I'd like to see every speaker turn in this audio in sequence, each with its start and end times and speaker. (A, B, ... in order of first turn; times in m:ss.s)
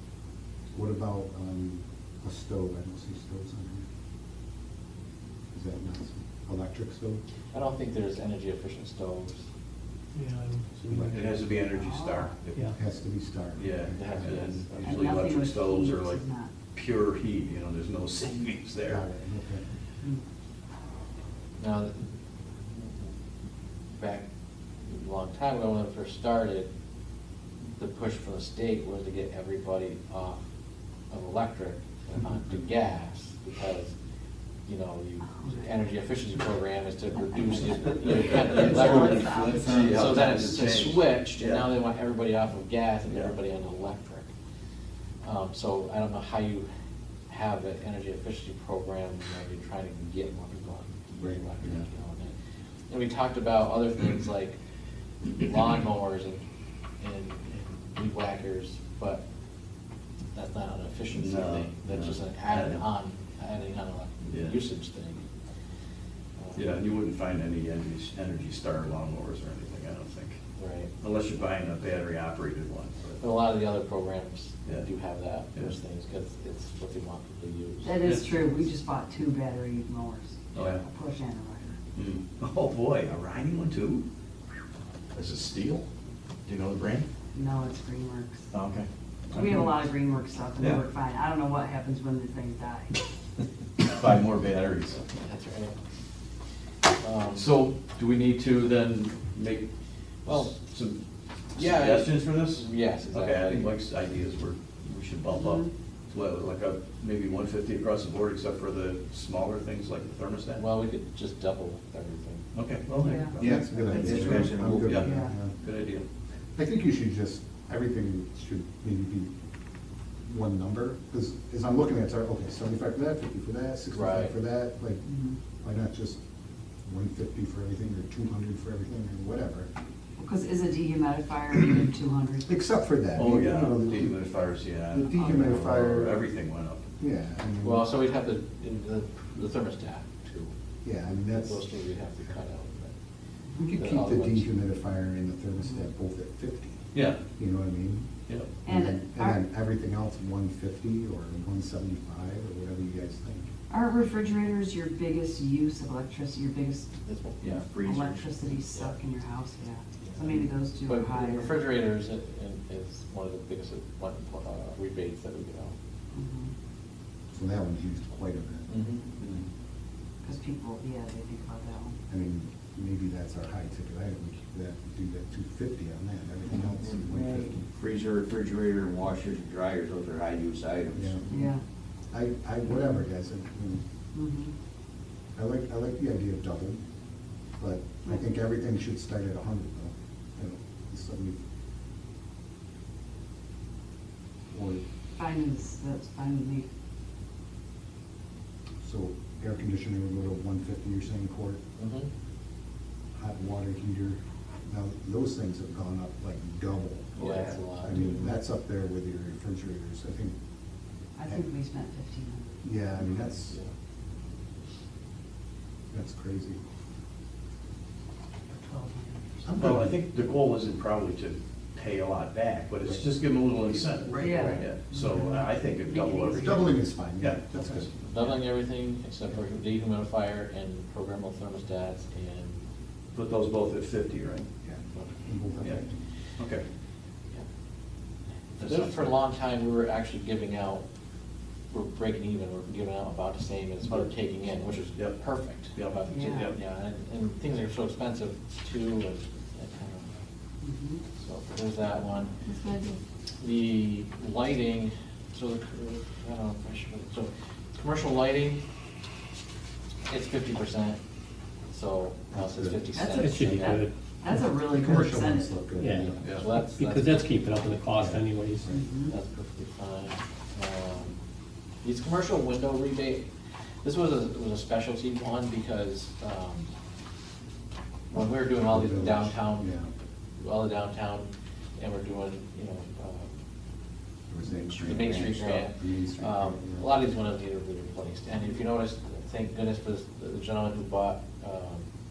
0:00.7-0:03.9 A
0:05.5-0:07.2 A
0:07.5-0:09.4 B
0:10.2-0:11.3 C
0:10.9-0:11.3 A
0:11.1-0:12.8 D
0:11.6-0:12.3 E
0:12.8-0:14.6 A
0:13.6-0:19.0 D
0:13.9-0:15.1 B
0:14.8-0:16.5 E
0:18.9-0:19.6 A
0:21.6-0:22.0 B
0:22.7-0:23.1 B
0:23.9-0:24.2 B
0:24.8-0:26.7 B
0:27.7-0:30.4 B
0:31.1-0:33.9 B
0:34.7-0:44.3 B
0:35.4-0:35.7 E
0:37.4-0:37.9 E
0:38.3-0:38.6 D
0:38.5-0:40.6 F
0:38.5-0:39.9 E
0:39.6-0:41.7 D
0:43.1-0:43.4 D
0:45.2-0:46.7 B
0:47.3-0:52.3 B
0:51.1-0:51.4 A
0:52.9-0:54.6 B
0:55.3-0:56.4 B
0:57.0-0:59.2 B
1:00.3-1:05.2 B
1:01.1-1:02.8 D
1:04.2-1:04.6 D
1:06.4-1:06.7 B
1:06.6-1:10.4 D
1:10.6-1:10.9 B
1:11.0-1:13.2 D
1:13.2-1:18.0 B
1:17.8-1:21.8 E
1:18.0-1:18.4 C
1:20.5-1:20.8 D
1:22.0-1:24.0 D
1:25.1-1:25.9 D
1:26.5-1:27.1 D
1:27.3-1:28.5 E
1:28.5-1:29.8 D
1:29.3-1:33.0 E
1:30.6-1:30.8 D
1:33.8-1:35.0 D
1:35.1-1:35.8 B
1:37.0-1:37.5 B
1:37.3-1:39.7 D
1:40.2-1:41.0 D
1:40.3-1:40.6 B
1:41.5-1:50.6 D
1:41.6-1:43.7 B
1:45.3-1:45.7 E
1:50.6-1:52.4 B
1:52.5-1:56.1 D
1:53.0-1:53.4 E
1:53.4-1:55.1 F
1:53.4-1:55.6 A
1:55.0-1:55.3 E
1:56.6-1:59.3 A
2:00.3-2:05.1 A
2:03.9-2:04.3 B
2:05.0-2:05.4 E
2:05.6-2:06.2 A
2:06.8-2:09.7 A
2:10.2-2:12.5 E
2:12.4-2:14.2 A
2:13.2-2:16.9 D
2:14.9-2:16.2 A
2:17.0-2:17.9 A
2:17.6-2:20.5 B
2:20.8-2:21.6 A
2:21.4-2:22.9 B
2:23.6-2:26.8 A
2:23.8-2:24.5 B
2:26.9-2:27.2 D
2:27.4-2:28.1 A
2:28.6-2:29.4 E
2:28.7-2:33.5 A
2:33.7-2:36.9 E
2:37.0-2:37.6 B
2:37.4-2:38.4 F
2:37.7-2:41.6 E
2:40.0-2:45.8 B
2:46.1-2:46.5 E
2:47.3-2:49.4 A
2:48.7-2:49.1 B
2:50.2-2:52.0 E
2:52.1-2:57.6 A
2:57.7-3:01.2 F
3:00.9-3:01.4 A
3:01.3-3:01.6 E
3:02.1-3:03.8 A
3:04.2-3:04.5 E
3:05.4-3:06.8 A
3:07.6-3:11.4 A
3:14.5-3:14.8 A
3:15.2-3:16.7 E
3:18.8-3:21.6 A
3:21.8-3:22.1 B
3:23.2-3:30.3 A
3:27.2-3:27.6 F
3:27.2-3:28.3 B
3:31.2-3:32.7 E
3:32.6-3:33.6 A
3:35.9-3:36.6 A
3:38.5-3:39.4 E
3:39.4-3:40.0 A
3:39.6-3:48.3 D
3:44.2-3:46.7 E
3:44.2-3:44.7 B
3:46.3-3:47.9 A
3:48.1-3:52.6 B
3:53.1-3:54.5 D
3:54.6-3:56.0 A
3:56.4-3:56.6 D
3:58.6-4:00.8 B
3:58.6-3:59.2 D
4:01.7-4:10.2 B
4:03.8-4:04.1 D
4:05.0-4:05.2 D
4:05.8-4:06.6 D
4:06.1-4:06.5 E
4:10.6-4:11.0 E
4:11.2-4:12.3 B
4:12.4-4:13.0 E
4:13.4-4:18.6 B
4:20.1-4:21.0 B
4:21.7-4:23.8 B
4:22.3-4:22.8 A
4:22.9-4:25.7 E
4:23.2-4:23.9 C
4:24.6-4:26.4 A
4:25.8-4:28.7 C
4:26.2-4:27.8 B
4:28.0-4:28.8 A
4:28.7-4:29.1 E
4:29.1-4:31.2 B
4:31.8-4:33.2 B
4:33.8-4:36.7 B
4:38.1-4:39.7 B
4:38.6-4:39.9 A
4:40.4-4:43.4 B
4:44.3-4:46.9 A
4:44.5-4:45.5 F
4:44.8-4:51.9 B